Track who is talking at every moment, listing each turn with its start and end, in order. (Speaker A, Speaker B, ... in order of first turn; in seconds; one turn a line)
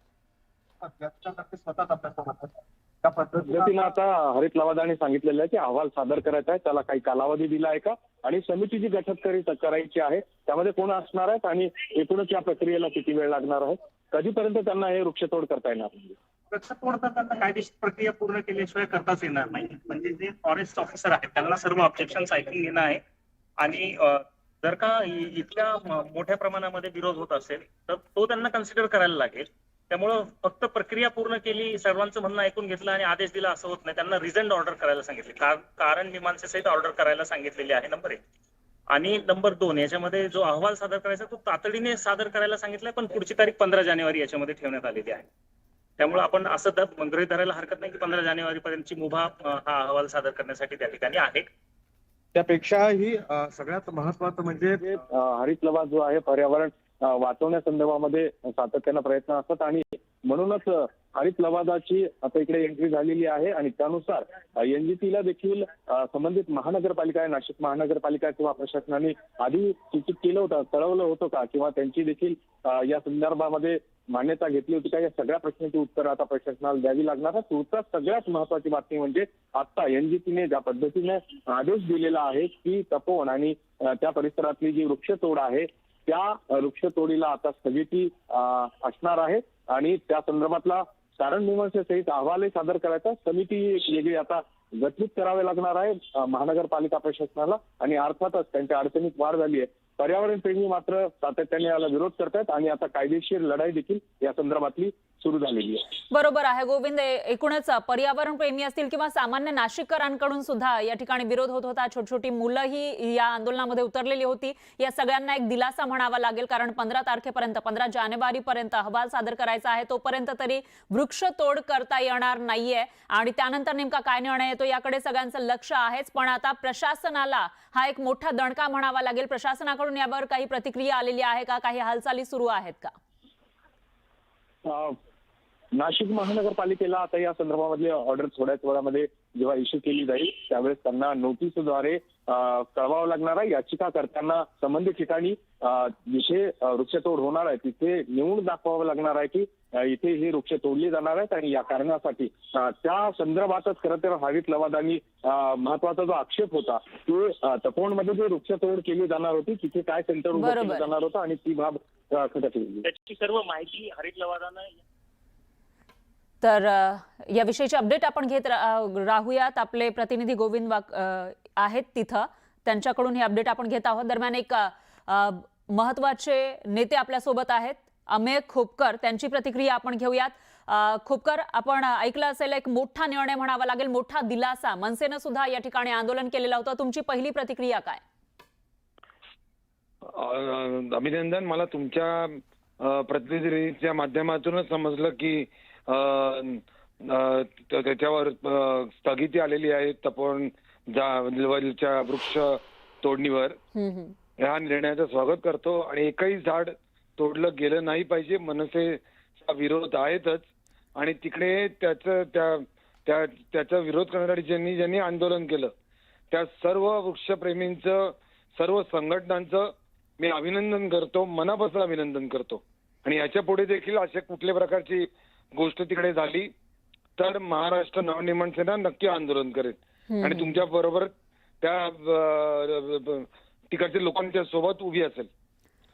Speaker A: 0.8-3.9
Speaker B: 3.5-16.1
Speaker C: 16.5-23.0
Speaker C: 23.6-38.2
Speaker C: 38.9-45.3
Speaker C: 46.0-51.5
Speaker A: 52.3-55.0
Speaker B: 54.9-105.8
Speaker D: 106.1-132.9
Speaker B: 134.6-134.9
Speaker B: 135.7-162.8
Speaker D: 160.3-160.9
Speaker C: 162.8-164.7
Speaker D: 166.4-188.0
Speaker E: 190.1-203.6
Speaker D: 203.7-204.1
Speaker E: 204.4-215.7
Speaker E: 216.3-226.5
Speaker E: 227.2-235.3
Speaker D: 230.1-230.6